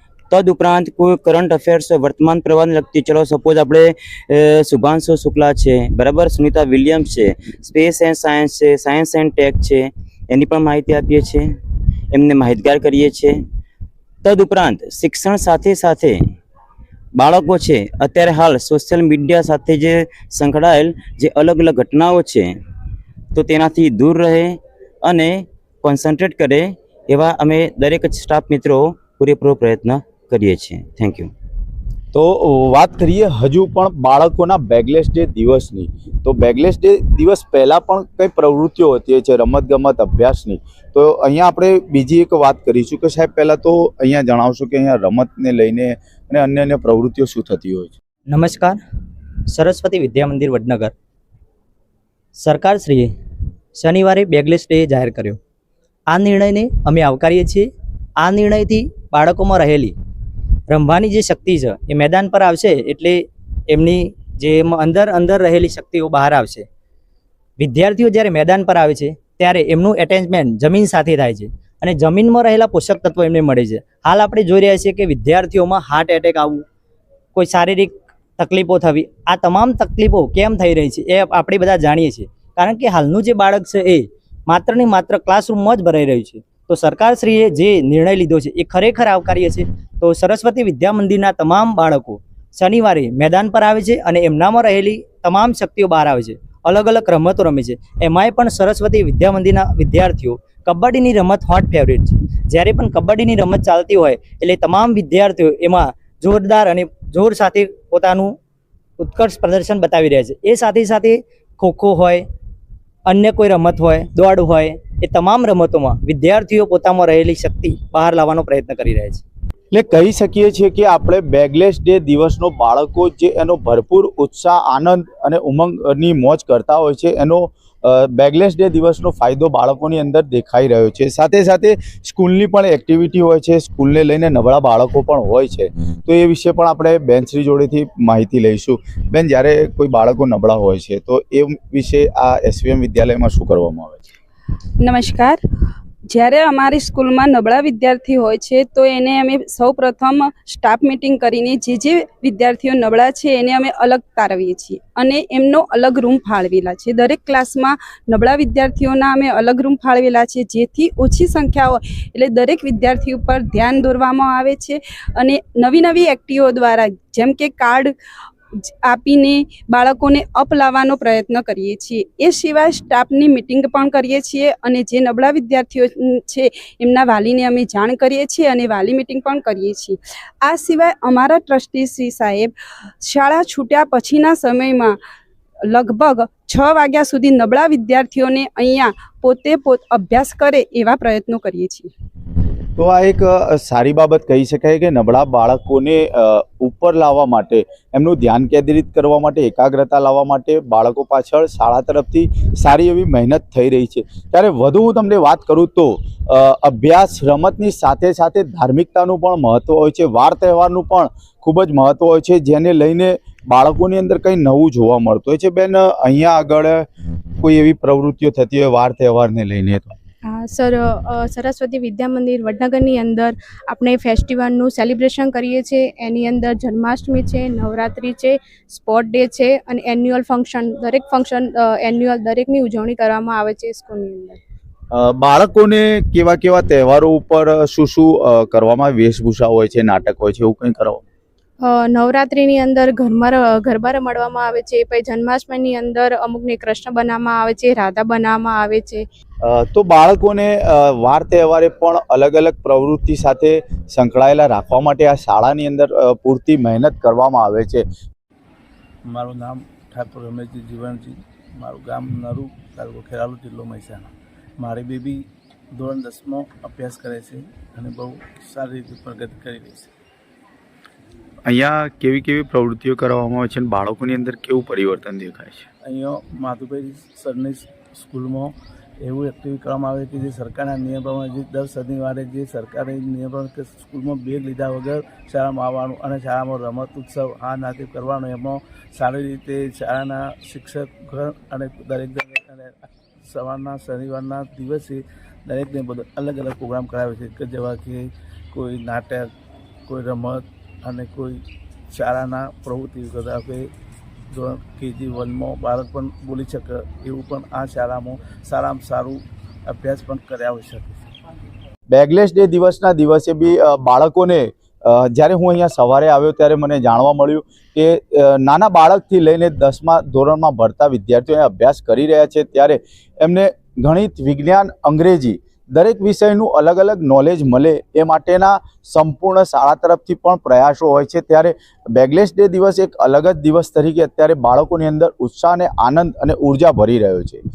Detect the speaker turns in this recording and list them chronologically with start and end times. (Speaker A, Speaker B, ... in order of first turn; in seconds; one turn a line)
Speaker A: 0.3-11.4
Speaker A: 12.1-13.3
Speaker A: 14.2-16.2
Speaker A: 17.2-22.5
Speaker A: 23.4-31.3
Speaker B: 32.1-47.9
Speaker C: 48.3-48.8
Speaker C: 49.5-50.9
Speaker C: 52.4-53.1
Speaker C: 53.8-55.4
Speaker C: 56.1-57.7
Speaker C: 58.2-60.0
Speaker C: 60.7-66.7
Speaker C: 67.6-76.6
Speaker C: 77.3-108.4
Speaker C: 109.0-112.2
Speaker C: 113.1-119.2
Speaker B: 119.7-144.0
Speaker D: 144.8-145.4
Speaker D: 146.1-167.9
Speaker D: 168.8-182.5
Speaker D: 183.0-185.0
Speaker D: 185.7-191.9
Speaker B: 192.8-216.9
Speaker B: 217.4-220.0
Speaker E: 220.3-234.4
Speaker B: 234.9-241.0
Speaker E: 241.6-249.0
Speaker B: 249.4-257.9
Speaker F: 259.1-269.9
Speaker B: 271.5-275.7
Speaker F: 275.8-299.3
Speaker F: 299.9-303.7
Speaker F: 304.3-311.1
Speaker B: 311.9-337.4